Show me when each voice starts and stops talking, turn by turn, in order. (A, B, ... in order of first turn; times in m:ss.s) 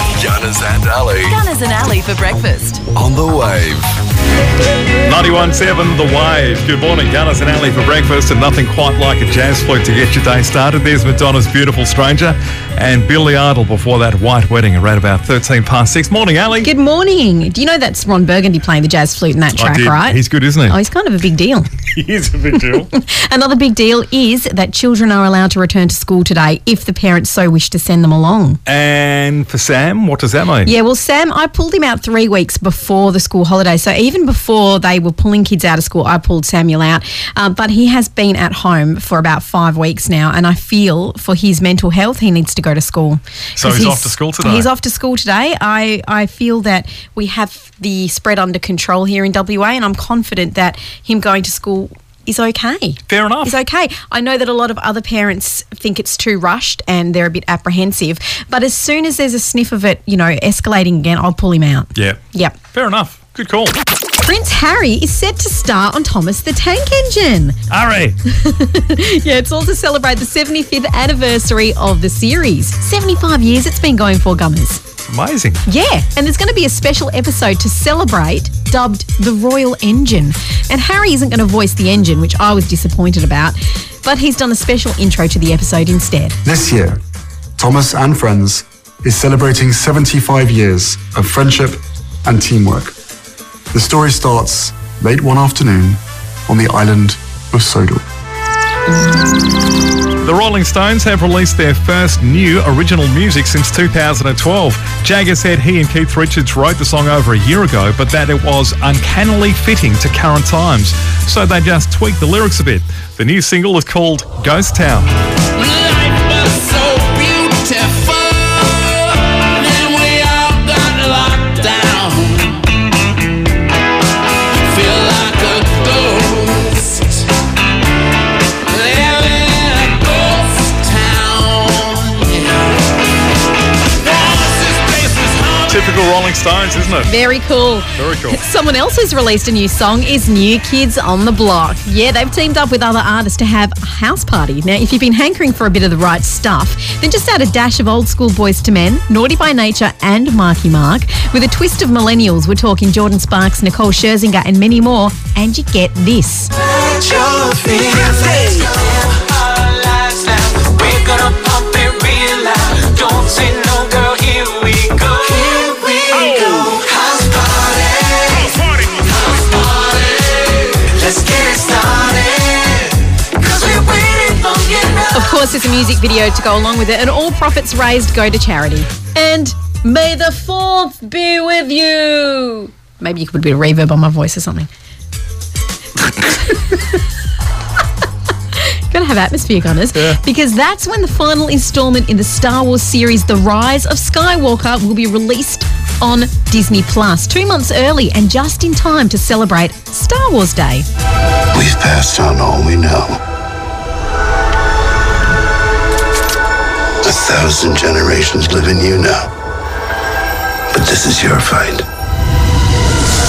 0:00.1-0:01.4 A
0:01.3-0:02.8 B
0:02.9-0:03.9 A
0:05.0-0:16.7 C
0:16.6-0:21.7 D
0:19.6-0:20.8 C
0:21.9-0:22.9 C
0:22.7-0:28.6 D
0:28.6-0:30.7 C
0:30.6-1:02.6 D
0:43.6-0:44.7 C
0:53.1-0:53.6 C
1:01.9-1:02.2 C
1:02.7-1:03.8 C
1:04.2-1:07.6 D
1:07.7-1:08.2 C
1:08.2-1:14.8 D
1:15.1-1:15.6 C
1:15.6-1:26.4 D
1:26.4-1:27.0 E
1:27.6-1:32.9 E
1:33.7-1:38.0 E
1:40.2-1:55.1 C
1:55.5-2:02.8 F
2:04.5-2:07.3 F
2:08.6-2:12.8 F
2:14.0-2:15.8 F
2:15.7-2:17.1 C
2:17.0-2:36.5 D
2:17.9-2:18.4 C
2:37.0-2:38.1 B
2:39.6-2:46.1 B
2:46.1-2:46.8 C
2:47.1-2:48.1 B
2:48.4-2:49.0 C
2:50.8-2:52.8 B
2:53.4-2:55.1 B
2:55.1-3:04.7 D
3:06.5-3:06.8 D
3:08.6-3:20.8 D
3:21.5-3:23.2 G
3:27.0-3:29.3 G
3:30.7-3:31.8 G